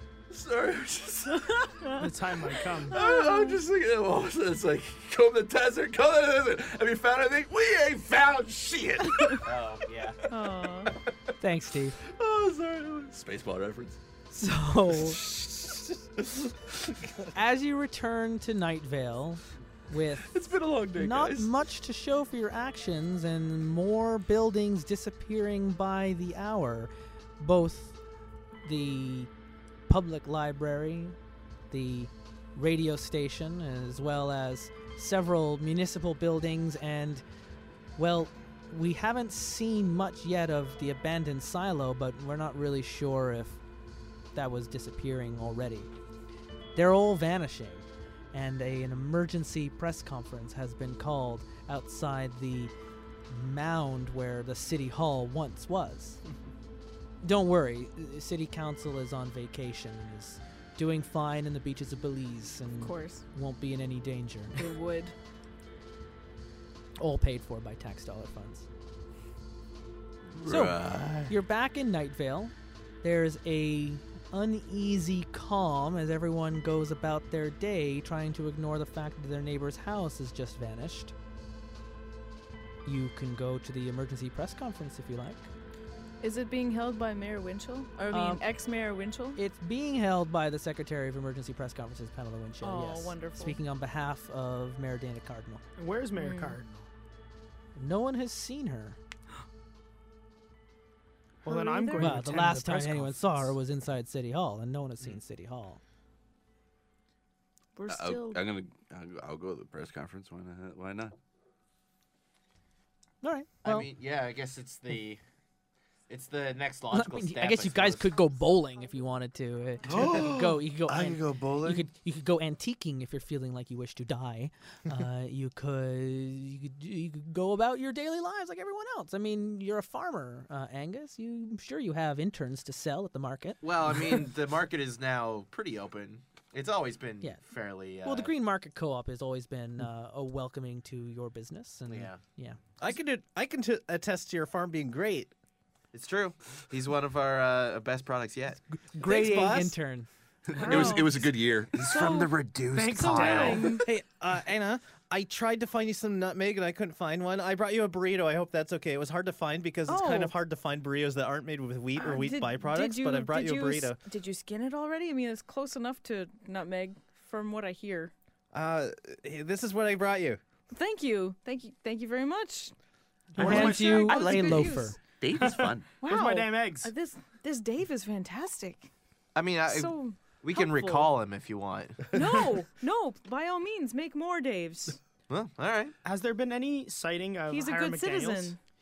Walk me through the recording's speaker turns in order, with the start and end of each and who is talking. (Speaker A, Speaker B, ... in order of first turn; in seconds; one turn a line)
Speaker A: 0.3-1.8
Speaker B: 1.8-2.1
Speaker C: 2.0-3.0
Speaker B: 2.7-3.6
Speaker A: 2.9-9.5
Speaker D: 9.4-10.2
Speaker B: 10.3-11.0
Speaker E: 11.4-12.0
Speaker A: 12.0-14.0
Speaker E: 14.3-15.2
Speaker A: 15.2-15.9
Speaker E: 17.3-20.4
Speaker A: 20.3-21.5
Speaker E: 20.9-28.0
Speaker E: 28.6-29.3
Speaker E: 29.9-31.2
Speaker E: 31.7-37.2
Speaker E: 38.0-43.6
Speaker E: 44.4-45.9
Speaker E: 46.8-52.7
Speaker E: 53.3-56.2
Speaker E: 57.2-64.6
Speaker B: 62.8-63.2
Speaker B: 64.6-65.2
Speaker E: 67.0-68.7
Speaker A: 70.3-71.3
Speaker E: 70.5-81.1
Speaker E: 82.8-85.5
Speaker B: 86.2-89.4
Speaker E: 88.1-88.4
Speaker E: 89.4-95.6
Speaker B: 92.6-93.6
Speaker C: 95.8-96.9
Speaker B: 96.2-96.6
Speaker E: 97.8-99.0
Speaker B: 101.4-102.2
Speaker C: 101.4-103.5
Speaker E: 102.0-105.8
Speaker B: 107.8-108.4
Speaker A: 107.9-111.2
Speaker E: 113.2-113.9
Speaker D: 113.6-115.2
Speaker D: 116.1-118.2
Speaker E: 116.9-133.6
Speaker A: 119.9-121.8
Speaker D: 119.9-120.2
Speaker D: 133.6-138.3
Speaker E: 138.0-142.6
Speaker D: 141.9-142.2
Speaker F: 142.8-145.3
Speaker D: 145.9-148.6
Speaker E: 148.7-150.1
Speaker F: 149.0-149.8
Speaker A: 150.5-153.7
Speaker B: 150.6-151.2
Speaker B: 151.8-153.9
Speaker C: 152.7-153.8
Speaker F: 153.8-164.0
Speaker B: 159.9-160.3
Speaker B: 161.9-168.1
Speaker F: 168.5-170.4
Speaker B: 170.7-172.7
Speaker B: 173.3-175.0
Speaker C: 173.4-173.9
Speaker E: 173.4-175.0
Speaker A: 173.4-175.9
Speaker C: 175.4-176.9
Speaker B: 176.0-178.9
Speaker D: 179.3-182.1
Speaker B: 179.6-181.1
Speaker B: 182.1-185.0
Speaker D: 185.3-185.9
Speaker C: 186.0-188.6
Speaker B: 187.5-188.6